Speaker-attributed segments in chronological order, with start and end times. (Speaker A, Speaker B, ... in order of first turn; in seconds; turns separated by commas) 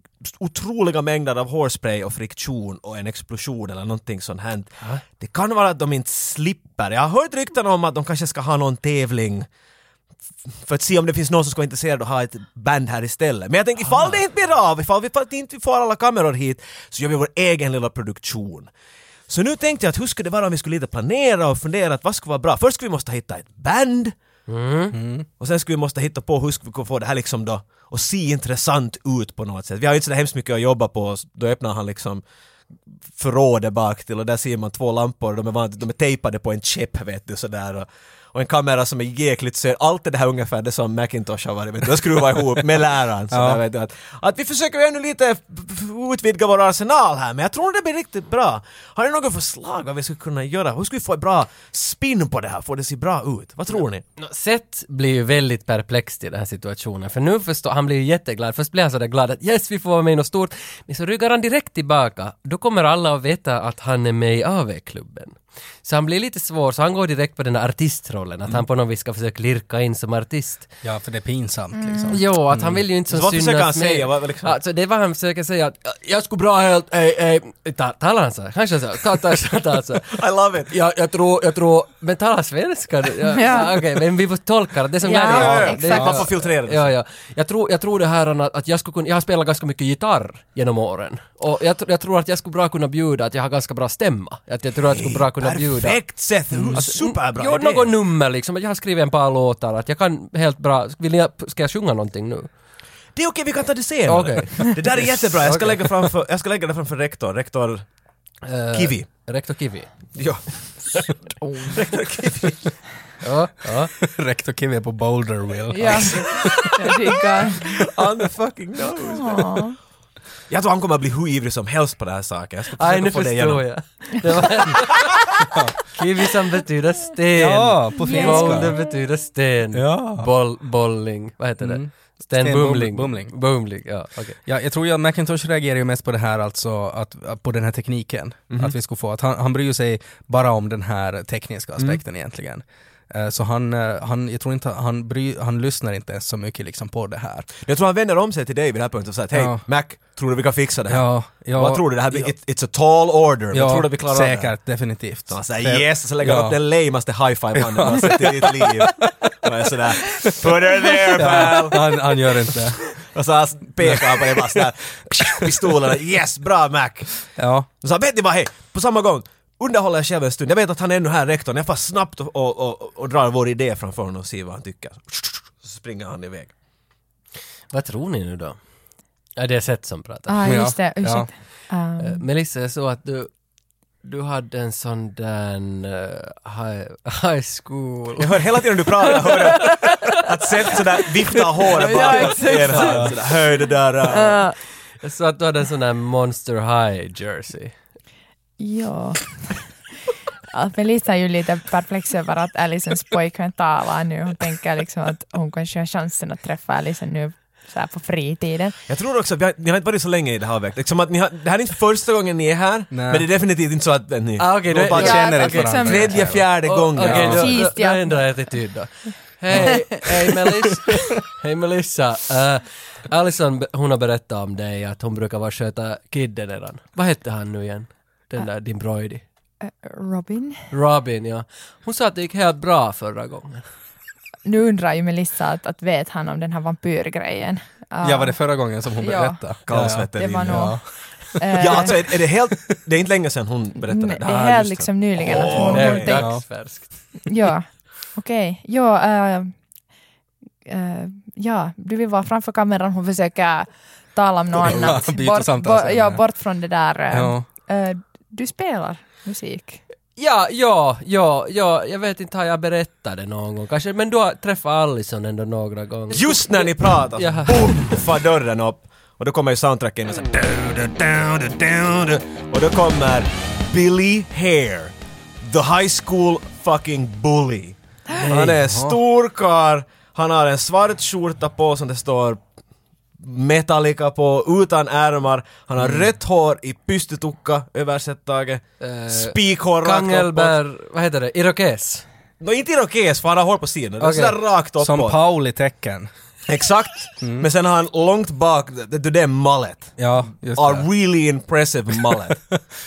Speaker A: 0.2-9.5, Speaker A: 10.6-18.7, Speaker A: 19.3-24.1, Speaker B: 24.5-24.9, Speaker C: 24.9-25.2, Speaker A: 25.4-32.2, Speaker A: 33.1-54.0, Speaker C: 43.3-43.6, Speaker B: 54.2-70.7, Speaker C: 70.8-72.8, Speaker D: 71.7-72.2, Speaker B: 72.1-80.1, Speaker A: 73.1-74.5, Speaker A: 80.1-80.7, Speaker B: 80.7-102.5, Speaker D: 83.3-83.8, Speaker D: 85.0-86.3, Speaker A: 85.2-86.9, Speaker C: 85.3-86.2, Speaker A: 94.9-97.9, Speaker A: 103.1-107.8, Speaker B: 104.0-106.1, Speaker B: 108.5-110.1, Speaker A: 108.7-109.1, Speaker A: 110.1-111.2, Speaker D: 111.4-111.8, Speaker A: 111.7-112.7, Speaker B: 113.2-113.9, Speaker C: 114.0-116.7, Speaker D: 115.7-117.7, Speaker A: 116.1-116.7, Speaker A: 117.6-119.6, Speaker D: 119.0-119.8, Speaker A: 120.5-123.7, Speaker B: 122.8-134.4, Speaker C: 127.3-128.8, Speaker D: 128.0-128.8, Speaker C: 129.7-130.3, Speaker C: 131.6-133.3, Speaker C: 134.4-147.5, Speaker A: 147.6-154.6, Speaker C: 149.3-149.6, Speaker C: 150.9-152.3, Speaker C: 153.5-156.6, Speaker A: 155.3-162.1, Speaker C: 157.5-159.3, Speaker C: 160.2-160.4, Speaker C: 161.1-162.9, Speaker A: 163.0-176.5, Speaker C: 163.8-164.7, Speaker C: 165.4-165.7, Speaker C: 167.3-167.7, Speaker B: 177.7-178.6, Speaker B: 179.4-180.5, Speaker D: 180.3-182.2, Speaker C: 180.4-181.3, Speaker B: 182.0-183.3, Speaker B: 184.0-189.3, Speaker A: 188.2-194.4, Speaker D: 191.7-194.6, Speaker B: 191.7-193.1, Speaker C: 192.8-193.1, Speaker B: 195.0-197.7, Speaker D: 198.6-199.8, Speaker D: 200.5-208.8, Speaker A: 208.9-217.6, Speaker C: 212.9-213.3, Speaker B: 214.4-229.2, Speaker C: 214.9-216.5, Speaker D: 214.9-218.6, Speaker C: 217.0-217.6, Speaker D: 219.6-220.1, Speaker D: 229.6-230.6, Speaker B: 230.7-233.6, Speaker D: 234.4-242.0, Speaker C: 238.0-241.9, Speaker A: 239.7-240.8, Speaker A: 241.6-246.2, Speaker D: 243.8-246.3, Speaker B: 245.3-246.9, Speaker C: 246.1-246.4, Speaker D: 247.2-249.5, Speaker D: 250.6-259.8, Speaker C: 254.6-256.2, Speaker C: 257.1-257.4, Speaker B: 260.2-268.0, Speaker A: 266.1-282.4, Speaker C: 278.2-279.0, Speaker A: 283.2-290.5, Speaker B: 288.8-292.0, Speaker A: 292.4-295.2, Speaker B: 294.0-294.4, Speaker C: 294.8-296.1, Speaker A: 296.5-302.4, Speaker C: 297.2-297.5, Speaker C: 300.0-300.9